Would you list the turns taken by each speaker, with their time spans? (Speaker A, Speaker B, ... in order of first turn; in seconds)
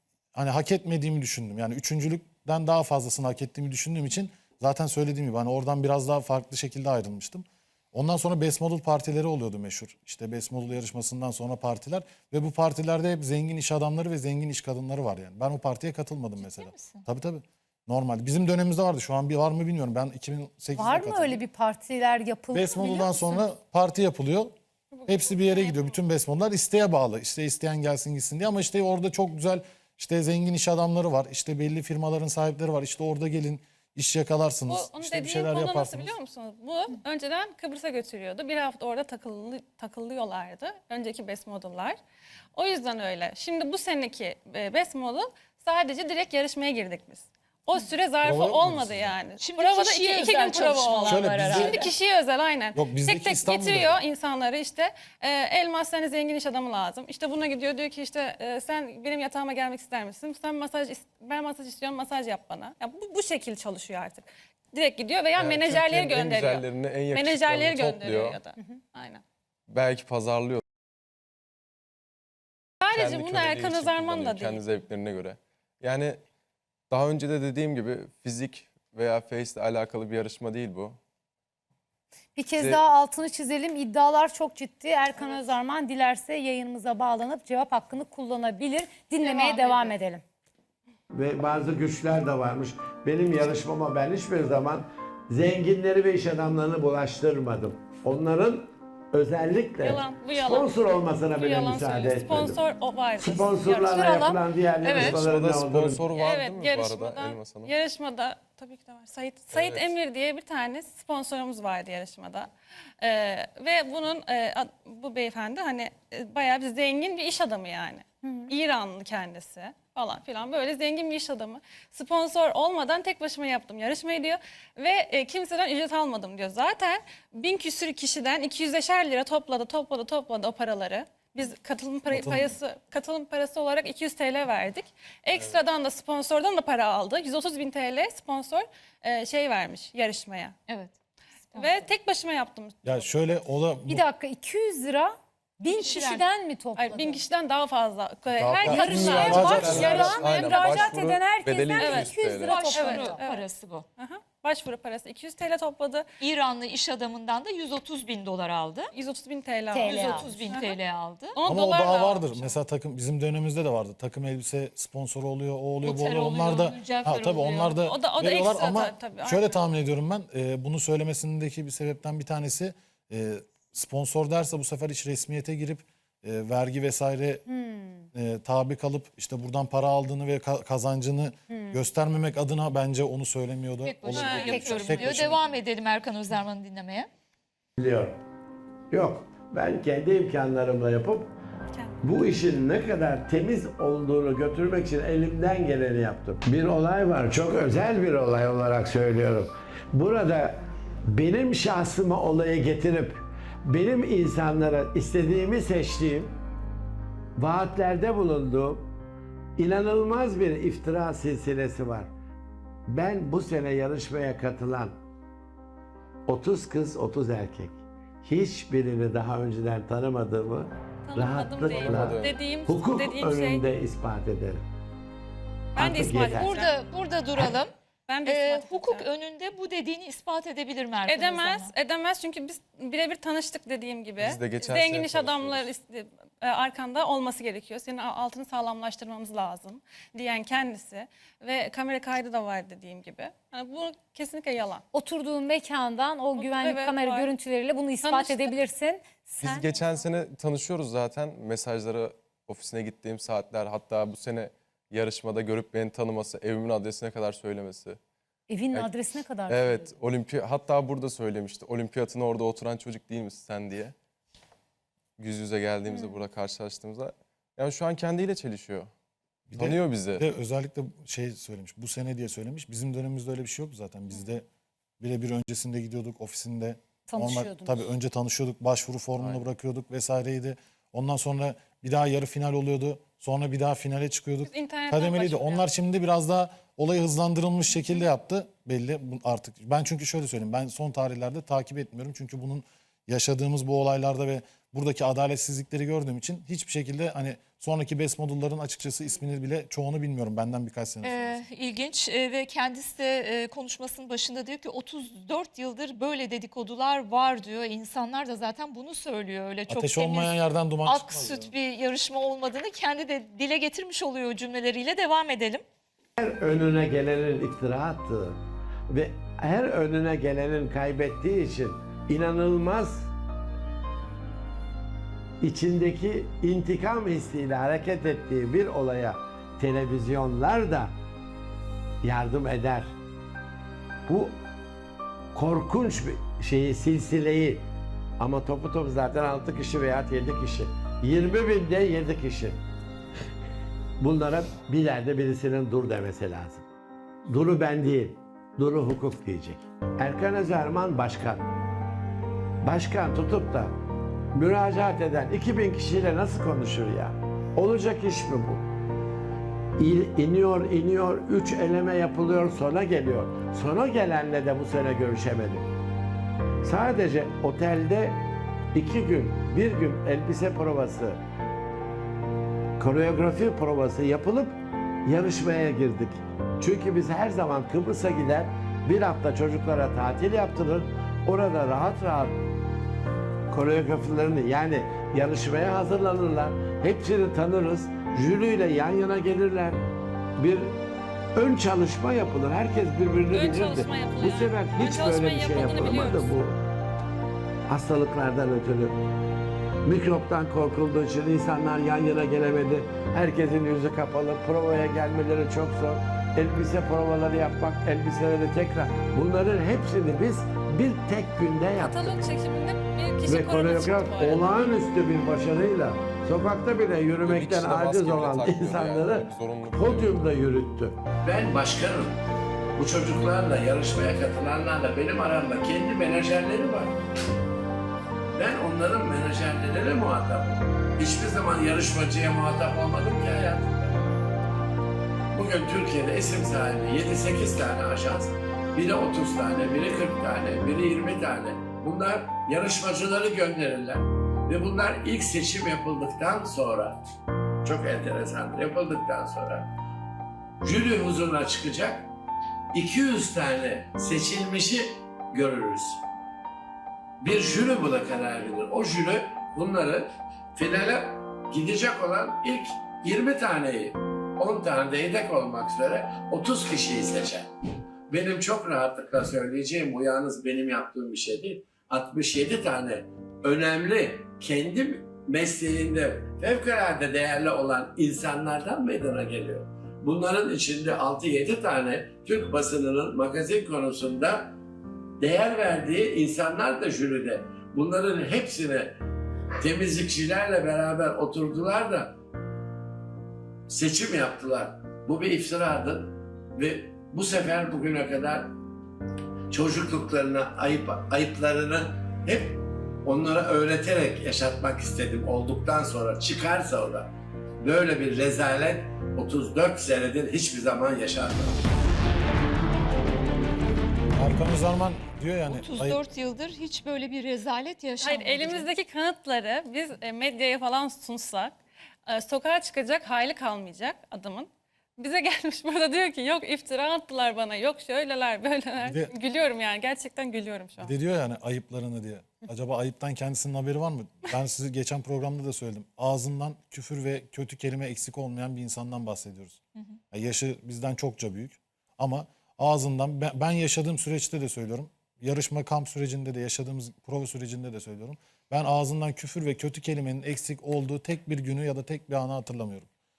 Speaker A: 0.3-21.4, 22.5-24.5, 25.1-36.1, 48.2-49.1, 51.0-51.8, 52.7-54.0, 132.1-132.5, 142.8-144.0, 148.6-150.2, 161.4-177.4, 178.1-185.5, 269.5-274.4, 275.0-301.4, 309.7-311.5, 514.1-516.0, 528.8-529.1, 530.8-552.9
Speaker B: 16.4-17.1, 49.4-51.9, 89.4-89.8, 104.0-105.2, 141.5-141.8, 145.7-146.2, 152.5-153.8, 156.2-158.9, 159.8-161.4, 165.8-167.8, 183.8-187.1, 226.3-227.7, 228.2-231.7, 301.0-315.6, 515.5-518.7
Speaker C: 20.8-23.4, 82.3-90.2, 118.2-118.5, 143.9-147.2, 148.7-153.3, 159.7-160.4, 177.5-178.0, 181.5-181.8, 184.3-184.8, 244.9-249.7, 258.5-259.9, 277.1-277.9
Speaker D: 24.9-26.0, 34.7-42.0, 42.5-69.2, 72.8-74.6, 89.4-89.8, 99.8-104.3, 106.1-112.5, 113.0-140.6, 141.5-143.1, 146.8-150.9, 151.7-156.0, 158.9-160.8, 161.3-162.6, 167.8-169.7, 184.1-185.3, 221.0-223.6, 225.7-226.7, 228.1-229.1, 231.0-244.8, 246.3-247.3, 248.0-248.5, 249.7-250.0, 284.4-285.7, 393.3-396.3, 411.8-414.5, 518.0-530.9
Speaker E: 65.3-68.4, 69.7-70.6, 72.9-76.2, 76.9-81.0, 82.5-82.8, 104.9-107.7, 109.5-109.9, 148.4-152.6, 221.7-222.3, 234.2-235.7, 249.4-258.0, 259.5-263.9, 265.2-268.9, 269.5-270.2, 279.2-279.4, 417.2-420.3
Speaker F: 91.1-102.6, 103.2-106.0, 187.8-188.2, 188.9-191.3, 192.0-206.3, 207.4-208.9, 209.6-212.1, 212.9-215.0, 216.3-224.6, 225.8-226.5, 316.2-323.1, 325.4-330.9, 332.0-332.9, 334.1-334.4, 335.3-337.6, 338.2-342.6, 344.0-346.7, 347.2-351.4, 352.6-353.8, 354.3-358.6, 359.8-365.7, 366.6-368.2, 368.7-371.2, 372.8-382.4, 383.5-389.8, 390.4-390.8, 391.3-396.6, 397.7-399.0, 399.8-412.2, 413.2-422.2, 422.7-426.9, 428.3-434.0, 435.3-447.0, 447.6-449.7, 450.6-452.1, 452.7-456.0, 457.2-467.5, 468.1-484.5, 485.2-488.9, 489.6-492.1, 493.7-498.6, 499.5-511.6